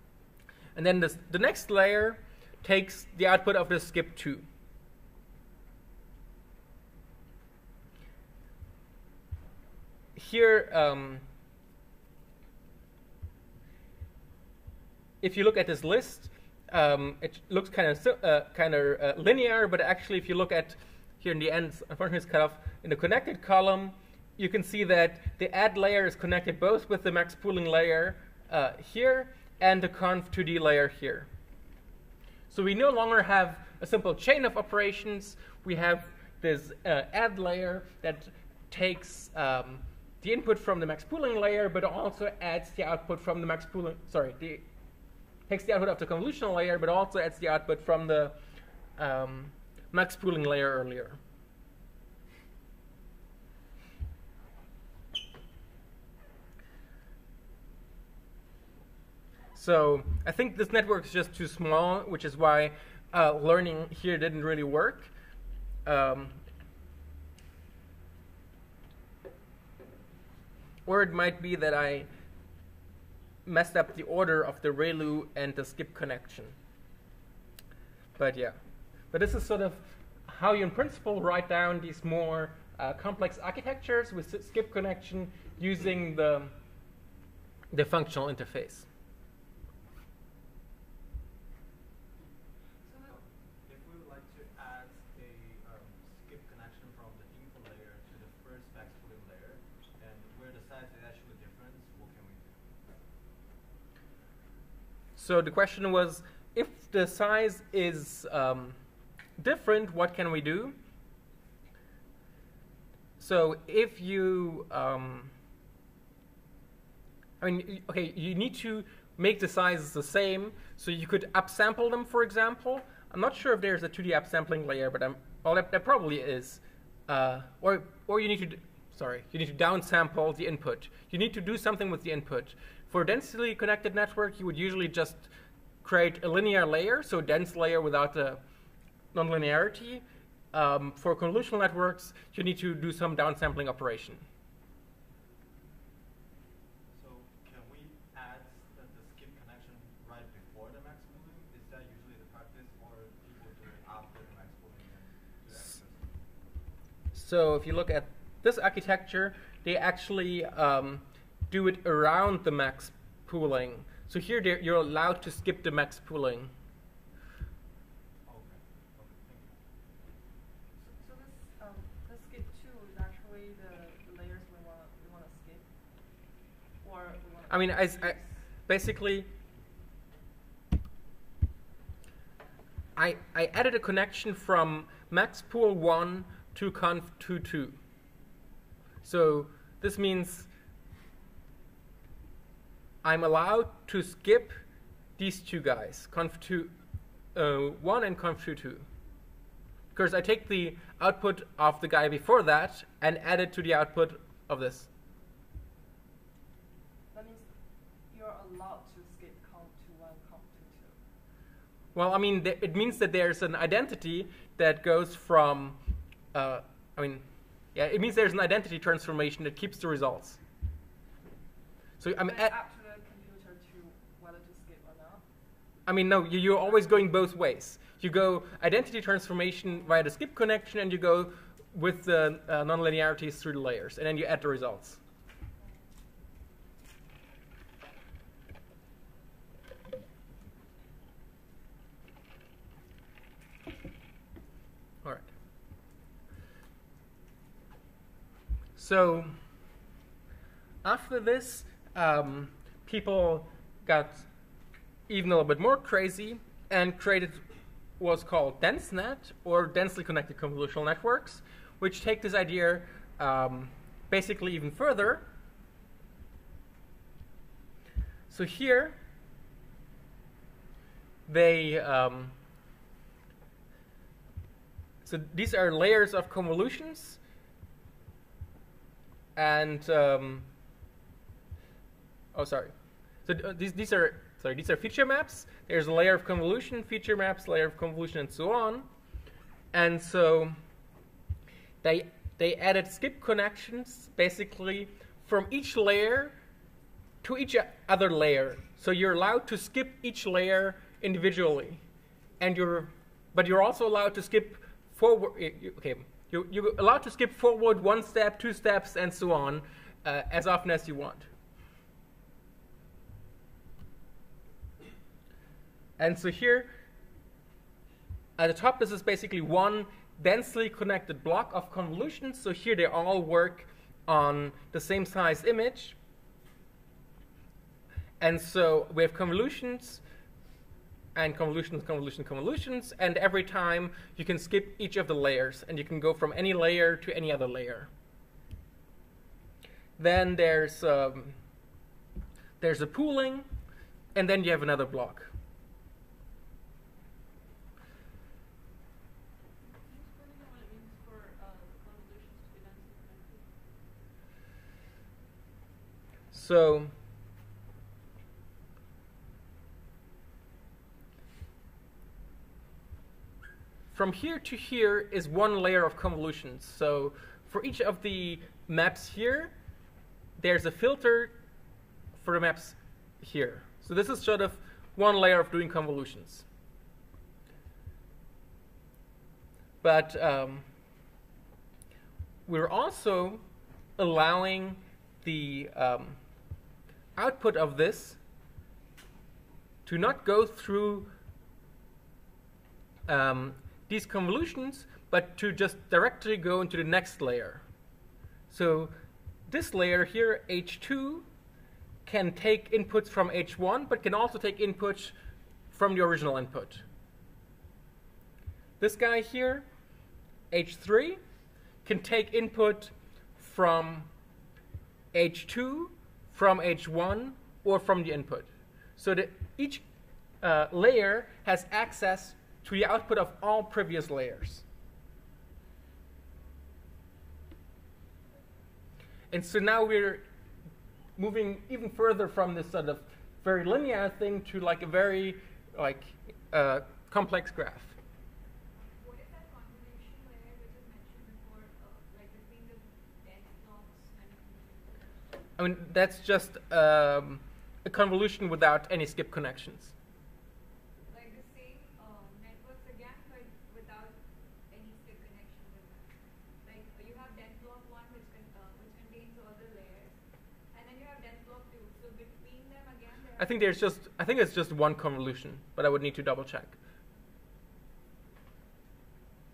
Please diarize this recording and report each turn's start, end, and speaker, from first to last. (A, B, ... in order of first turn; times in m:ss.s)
0:00.8-0:04.4 A
0:10.2-0:11.2 A
0:15.2-0:31.3 A
0:32.5-0:44.6 A
0:45.5-0:48.4 A
0:49.0-0:51.2 A
0:59.5-1:05.1 A
1:05.8-1:06.4 A
1:10.9-1:12.1 A
1:13.4-1:16.6 A
1:18.2-1:18.6 A
1:19.1-1:26.5 A
1:27.7-1:28.9 A
1:32.8-1:33.1 B
1:33.1-1:42.5 C
1:45.2-1:48.8 A
1:49.4-1:50.8 A
1:53.2-1:55.3 A
1:57.4-2:15.3 A
2:15.8-2:18.4 A
2:19.1-2:24.2 A
2:26.9-2:36.2 C
2:37.1-2:46.5 A
2:48.2-2:49.6 C
2:50.8-2:55.7 B
2:56.8-2:58.4 B
2:57.5-2:59.3 A
3:03.0-3:07.8 A
3:09.0-3:10.5 A
3:13.0-3:14.6 A
3:15.2-3:16.7 A
3:17.4-3:18.9 A
3:19.9-3:24.9 A
3:27.1-3:27.5 B
3:28.1-3:31.0 B
3:32.0-3:35.8 A
3:36.3-3:37.2 A
3:37.8-3:40.4 A
3:42.0-3:42.5 A
3:42.2-3:45.2 B
3:45.9-3:55.0 A
4:08.8-4:09.4 A
4:10.8-4:14.3 A
4:15.1-4:17.4 A
4:18.0-4:25.3 A
4:28.3-4:29.0 A
4:31.3-4:32.4 A
4:35.0-4:37.2 A
4:39.4-4:40.5 A
4:42.3-4:42.7 A
4:43.2-4:48.9 A
4:49.7-4:50.6 A
4:51.8-4:56.3 A
4:57.2-5:01.8 A
5:02.4-5:11.3 A
5:16.0-5:16.7 A
5:18.4-5:26.0 A
5:28.2-5:30.0 A
5:31.2-5:37.9 A
5:40.0-5:41.4 A
5:42.6-5:43.5 A
5:44.2-5:45.3 A
5:49.6-5:53.5 D
5:56.3-5:56.9 A
6:03.9-6:09.5 A
6:10.4-6:11.3 A
6:12.2-6:16.5 A
6:19.8-6:20.7 A
6:22.5-6:23.4 A
6:24.0-6:26.2 A
6:27.2-6:28.2 A
6:29.8-6:31.1 A
6:33.1-6:37.6 A
6:38.5-6:39.0 A
6:39.5-6:41.3 A
6:42.0-6:45.2 A
6:45.7-6:46.8 A
6:48.8-6:49.7 A
6:50.5-6:51.2 A
6:51.8-6:54.1 A
6:55.1-6:59.8 A
7:00.4-7:04.6 A
7:09.3-7:10.2 A
7:11.2-7:18.0 A
7:18.8-7:25.0 E
7:25.6-7:29.9 A
7:31.1-7:36.1 E
7:36.6-7:40.2 E
7:40.7-7:43.8 E
7:43.4-7:46.8 A